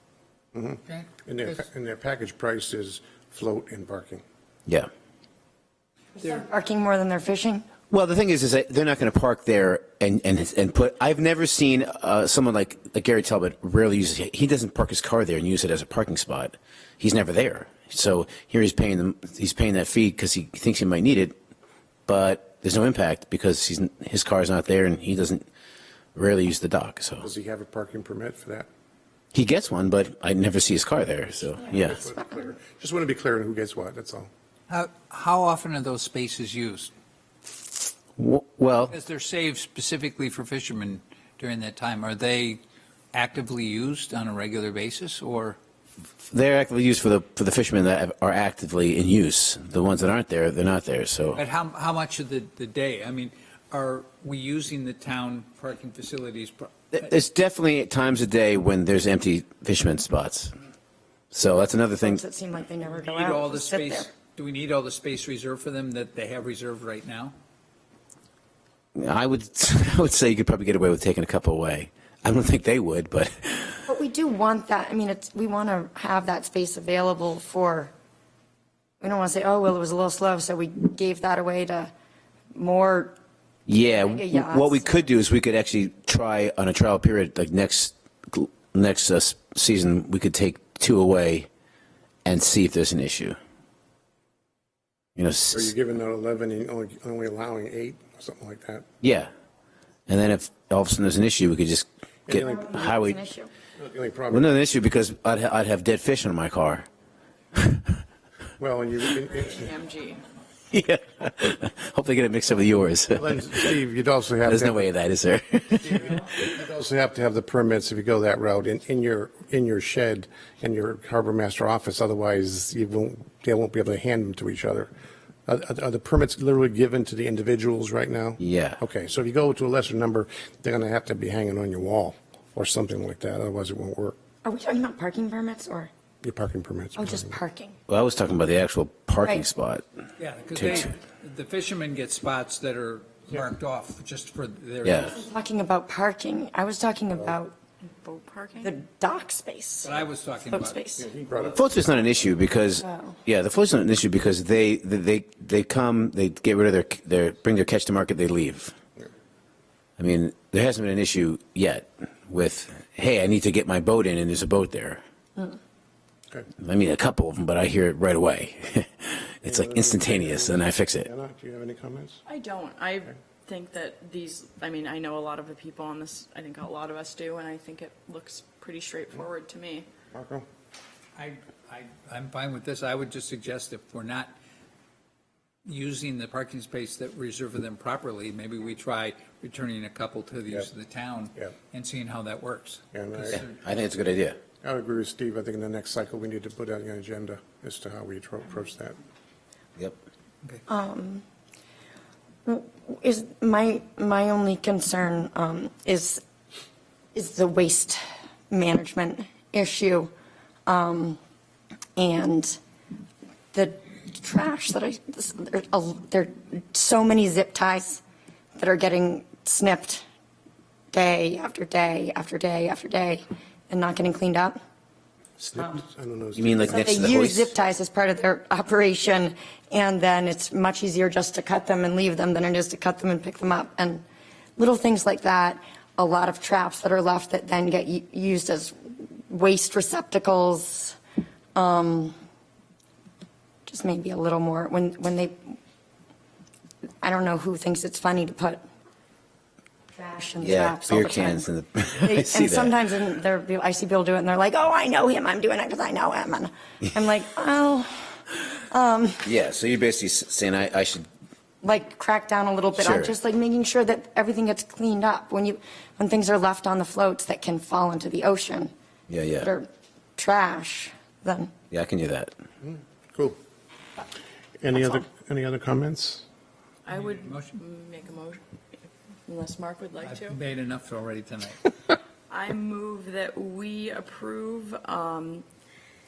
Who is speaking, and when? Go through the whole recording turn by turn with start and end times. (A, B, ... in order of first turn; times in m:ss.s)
0:00.5-0:04.2 A
0:00.9-0:01.6 B
0:06.2-0:07.6 C
0:07.9-0:21.4 D
0:22.1-0:25.4 D
0:26.1-0:27.3 D
0:27.2-0:28.7 A
0:29.3-0:32.1 D
0:31.7-0:34.3 A
0:34.7-0:36.9 B
0:38.2-0:38.9 D
0:38.9-0:42.6 B
0:43.1-0:45.6 B
0:46.3-0:51.4 D
0:51.3-0:56.7 B
0:56.9-1:00.5 D
1:01.3-1:02.2 D
1:02.0-1:04.1 C
1:02.9-1:07.3 B
1:08.9-1:13.8 D
1:13.9-1:17.9 C
1:19.0-1:21.9 C
1:22.5-1:23.1 C
1:23.7-1:31.5 D
1:23.8-1:25.0 C
1:32.2-1:33.4 D
1:35.2-1:35.7 D
1:35.5-1:38.8 A
1:39.0-1:39.3 D
1:40.1-1:43.2 D
1:42.3-1:42.7 A
1:42.3-1:43.5 C
1:43.8-1:44.5 A
1:44.3-1:46.8 D
1:47.5-1:47.9 D
1:48.6-1:49.7 A
1:49.2-1:50.2 E
1:50.7-1:53.7 D
1:53.1-1:54.9 A
1:54.4-1:56.3 D
1:55.8-2:04.9 A
2:05.4-2:14.2 A
2:08.4-2:08.8 D
2:14.4-2:15.9 C
2:16.2-2:17.4 A
2:17.0-2:17.8 C
2:17.9-2:19.8 D
2:20.2-2:25.2 B
2:20.5-2:20.9 D
2:24.8-2:25.1 D
2:25.1-2:27.5 C
2:28.0-2:28.8 E
2:28.6-2:29.9 C
2:29.8-2:30.8 B
2:30.5-2:31.1 C
2:31.0-2:31.7 A
2:31.5-2:38.7 D
2:32.8-2:33.2 C
2:40.0-2:45.0 D
2:46.6-2:51.1 D
2:49.4-2:52.2 A
2:52.2-2:59.9 E
3:00.1-3:00.5 A
3:01.2-3:04.3 B
3:05.6-3:13.6 B
3:12.9-3:13.4 A
3:13.3-3:14.4 D
3:14.6-3:19.0 A
3:20.7-3:21.2 C
3:22.4-3:26.2 C
3:27.1-3:30.1 C
3:30.6-3:31.2 C
3:32.0-3:32.6 C
3:33.5-3:38.0 C
3:38.6-3:40.0 C
3:40.9-3:44.6 C
3:45.4-3:46.8 A
3:46.4-3:47.5 D
3:46.7-3:54.0 C
3:54.6-4:01.0 C
4:01.5-4:02.1 C
4:03.7-4:05.6 C
4:07.0-4:08.6 C
4:09.9-4:19.2 C
4:10.4-4:12.8 D
4:19.2-4:21.0 D
4:21.6-4:28.7 C
4:22.7-4:23.1 D
4:29.1-4:29.5 D
4:29.4-4:31.5 C
4:31.7-4:32.3 D
4:32.6-4:33.4 A
4:34.6-4:36.2 A
4:36.8-4:40.4 E
4:36.9-4:37.6 B
4:40.0-4:41.7 B
4:42.3-4:45.4 E